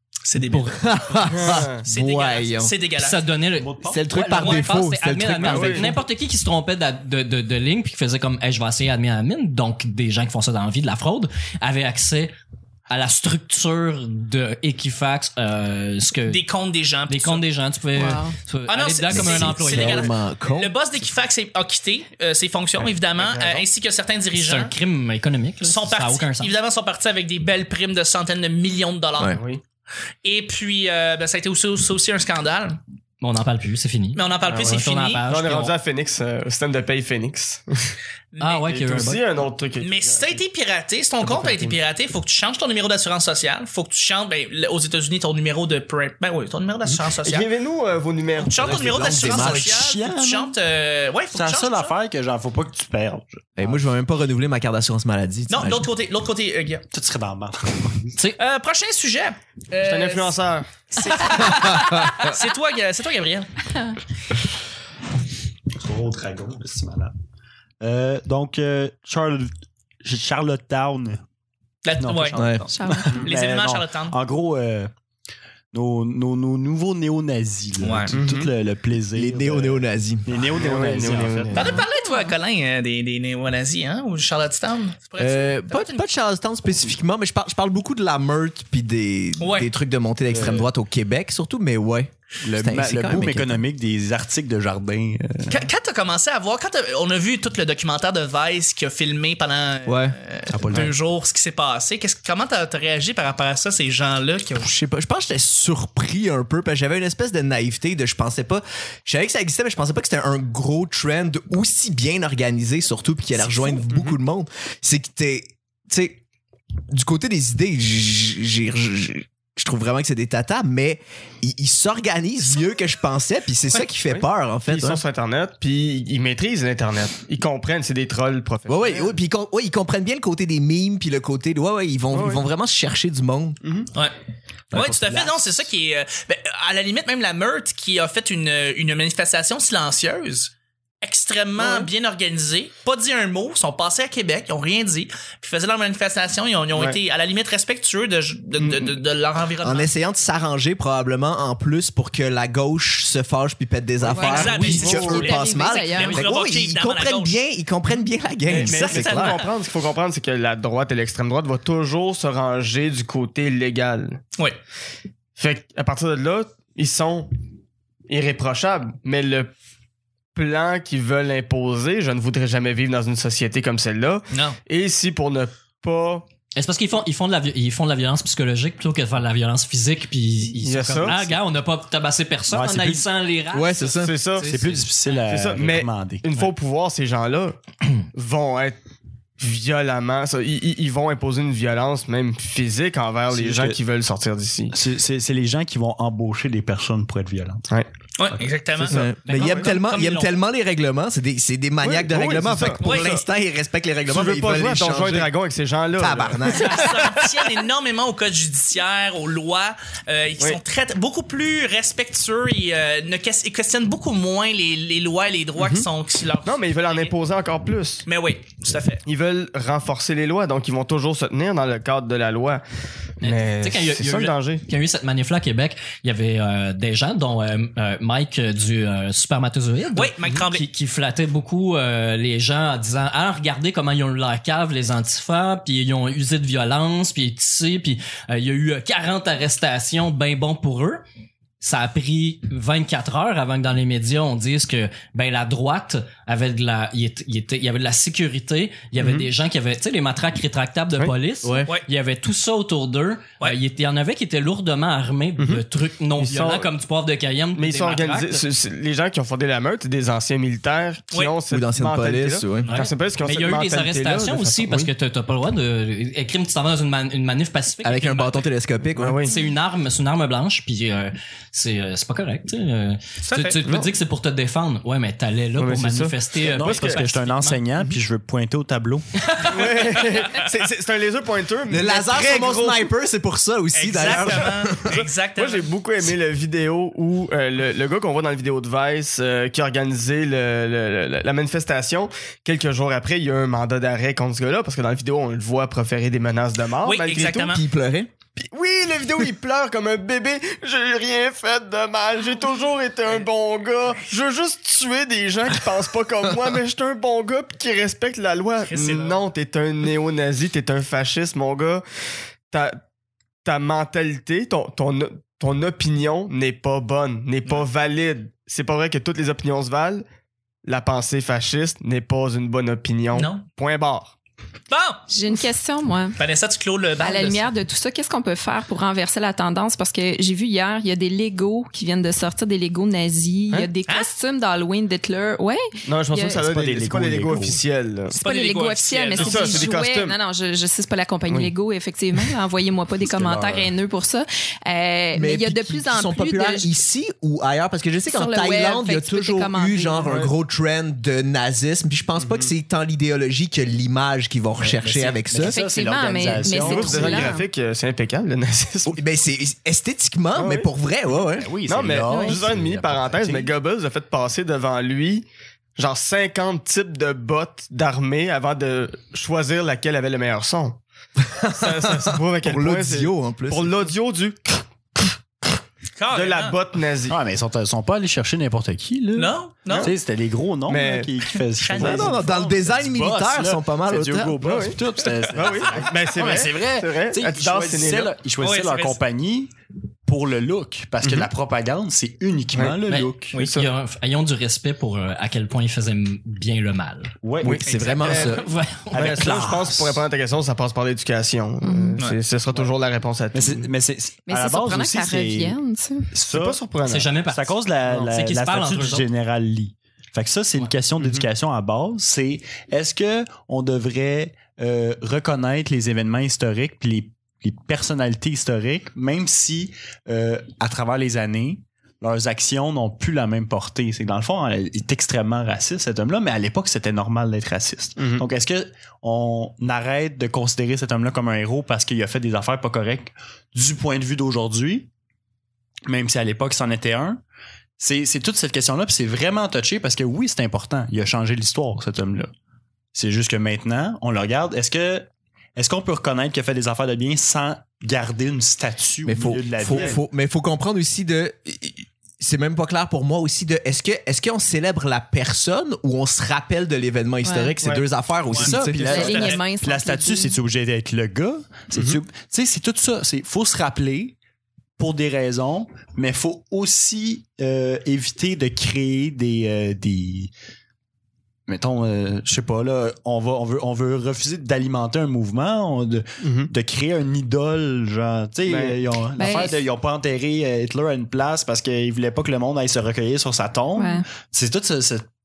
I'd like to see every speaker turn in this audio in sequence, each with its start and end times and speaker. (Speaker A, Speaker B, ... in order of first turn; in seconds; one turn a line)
Speaker A: 0.2-0.8
Speaker B: 0.5-0.8
Speaker C: 0.8-2.7
Speaker D: 1.3-1.8
Speaker A: 1.9-3.2
Speaker B: 3.0-12.3
Speaker E: 3.6-4.5
Speaker C: 3.9-6.0
Speaker D: 5.4-6.0
Speaker B: 12.9-16.4
Speaker A: 16.3-17.4
Speaker B: 17.1-20.1
Speaker F: 17.9-18.4
Speaker A: 18.7-24.7
Speaker C: 19.1-20.7
Speaker D: 22.8-23.6
Speaker B: 24.4-26.5
Speaker A: 25.6-29.4
Speaker D: 29.3-29.6
Speaker A: 30.2-32.8
Speaker B: 33.2-35.8
Speaker A: 34.1-35.2
Speaker D: 34.5-37.9
Speaker A: 38.3-38.9
Speaker B: 38.4-39.3
Speaker D: 38.7-40.4
Speaker A: 39.8-47.5
Speaker D: 41.2-41.8
Speaker D: 46.9-49.4
Speaker A: 48.4-51.9
Speaker C: 48.6-49.7
Speaker E: 49.2-50.5
Speaker E: 51.3-53.7
Speaker C: 53.6-55.9
Speaker A: 55.5-56.9
Speaker E: 56.9-58.2
Speaker A: 58.4-60.4
Speaker D: 59.8-61.5
Speaker A: 60.9-63.5
Speaker C: 61.4-62.3
Speaker E: 65.7-67.1
Speaker E: 67.8-69.5
Speaker E: 70.0-71.2
Speaker A: 71.8-72.7
Speaker E: 72.0-74.9
Speaker C: 72.4-72.7
Speaker F: 72.7-73.3
Speaker A: 73.2-74.2
Speaker E: 75.7-81.7
Speaker A: 77.8-78.1
Speaker D: 78.1-78.5
Speaker C: 79.1-80.3
Speaker D: 80.4-81.8
Speaker A: 81.5-86.1
Speaker F: 81.8-82.3
Speaker C: 85.2-93.6
Speaker A: 89.4-89.7
Speaker E: 90.3-90.7
Speaker E: 92.4-95.6
Speaker A: 95.5-104.7
Speaker C: 99.9-100.2
Speaker E: 100.5-100.9
Speaker C: 104.5-116.2
Speaker A: 113.4-113.9
Speaker C: 116.9-125.0
Speaker D: 124.1-129.1
Speaker C: 128.7-133.6
Speaker D: 132.1-132.4
Speaker D: 133.6-133.9
Speaker A: 134.7-149.9
Speaker E: 134.8-135.4
Speaker D: 141.6-141.9
Speaker D: 146.7-147.0
Speaker D: 148.6-148.9
Speaker C: 149.6-159.4
Speaker D: 154.0-155.3
Speaker F: 154.1-156.3
Speaker A: 154.2-157.4
Speaker A: 158.5-159.5
Speaker D: 158.5-164.2
Speaker D: 165.4-167.3
Speaker D: 168.1-169.5
Speaker D: 170.3-176.2
Speaker A: 174.3-174.6
Speaker B: 176.6-184.8
Speaker D: 180.6-181.2
Speaker E: 182.5-183.1
Speaker C: 183.5-184.1
Speaker D: 184.0-184.6
Speaker E: 184.4-186.5
Speaker D: 185.3-187.6
Speaker D: 188.2-188.8
Speaker D: 189.4-194.8
Speaker E: 193.3-193.8
Speaker E: 194.7-197.7
Speaker A: 198.2-199.1
Speaker D: 198.8-199.7
Speaker C: 198.9-205.3
Speaker B: 199.2-200.3
Speaker A: 199.9-200.2
Speaker D: 201.8-203.2
Speaker A: 202.8-203.2
Speaker D: 204.1-207.1
Speaker C: 206.0-207.2
Speaker A: 206.4-217.1
Speaker D: 215.6-215.9
Speaker D: 216.4-218.1
Speaker A: 218.1-219.0
Speaker D: 219.1-222.6
Speaker D: 223.2-224.6
Speaker B: 223.2-241.0
Speaker A: 230.0-230.6
Speaker B: 241.6-258.4
Speaker D: 249.0-249.3
Speaker C: 251.4-251.7
Speaker D: 255.4-255.6
Speaker D: 256.2-256.7
Speaker D: 257.6-264.9
Speaker C: 261.5-262.7
Speaker B: 262.6-268.5
Speaker C: 267.8-269.2
Speaker D: 269.0-269.3
Speaker B: 269.3-277.6
Speaker A: 273.3-273.6
Speaker D: 273.6-273.9
Speaker D: 275.6-277.0
Speaker E: 276.5-279.2
Speaker B: 279.3-279.7
Speaker D: 279.4-282.9
Speaker C: 281.7-284.9
Speaker A: 283.7-285.7
Speaker D: 284.0-297.6
Speaker A: 296.8-297.6
Speaker C: 297.5-298.1
Speaker D: 298.4-311.8
Speaker A: 308.6-309.2
Speaker D: 312.5-312.8
Speaker D: 313.4-320.1
Speaker D: 320.6-324.1
Speaker A: 323.1-323.4
Speaker A: 324.7-325.0
Speaker F: 325.1-326.2
Speaker A: 326.2-327.5
Speaker F: 327.0-336.5
Speaker D: 335.9-338.2
Speaker E: 336.4-337.6
Speaker F: 338.1-346.7
Speaker A: 338.1-339.7
Speaker D: 339.2-340.2
Speaker E: 343.1-343.7
Speaker C: 345.1-355.6
Speaker F: 348.1-350.1
Speaker D: 352.2-352.5
Speaker E: 354.6-357.3
Speaker F: 355.4-357.4
Speaker D: 356.4-359.0
Speaker C: 358.9-361.5
Speaker D: 360.4-360.7
Speaker E: 361.4-363.5
Speaker D: 361.7-370.8
Speaker F: 362.1-362.4
Speaker C: 371.4-373.9
Speaker D: 371.5-375.1
Speaker A: 376.0-376.6
Speaker D: 376.1-377.2
Speaker E: 377.1-389.5
Speaker A: 379.1-379.9
Speaker D: 379.7-379.9
Speaker D: 380.7-381.1
Speaker A: 381.5-382.2
Speaker D: 381.8-382.1
Speaker C: 381.8-384.4
Speaker D: 384.4-388.1
Speaker A: 388.4-389.0
Speaker E: 390.1-393.4
Speaker D: 391.0-391.3
Speaker D: 392.5-392.8
Speaker B: 392.9-397.1
Speaker D: 393.4-393.7
Speaker E: 397.2-397.6
Speaker C: 397.4-398.4
Speaker D: 397.4-398.4
Speaker A: 397.7-398.4
Speaker B: 398.0-399.7
Speaker E: 398.9-400.0
Speaker D: 398.9-403.7
Speaker F: 401.6-402.0
Speaker E: 403.3-405.6
Speaker F: 404.3-406.1
Speaker E: 406.1-406.6
Speaker D: 406.3-407.1
Speaker B: 406.9-409.1
Speaker E: 407.2-434.9
Speaker D: 411.0-411.2
Speaker D: 428.0-428.2
Speaker E: 435.9-437.2
Speaker E: 437.8-442.3
Speaker E: 442.9-450.0
Speaker C: 449.1-458.9
Speaker D: 449.6-450.0
Speaker F: 457.2-457.6
Speaker A: 458.3-459.4
Speaker E: 458.4-464.2
Speaker F: 458.8-460.4
Speaker E: 464.8-470.3
Speaker E: 471.5-485.1
Speaker D: 476.2-476.5
Speaker D: 478.5-478.8
Speaker F: 479.2-479.6
Speaker F: 483.8-484.1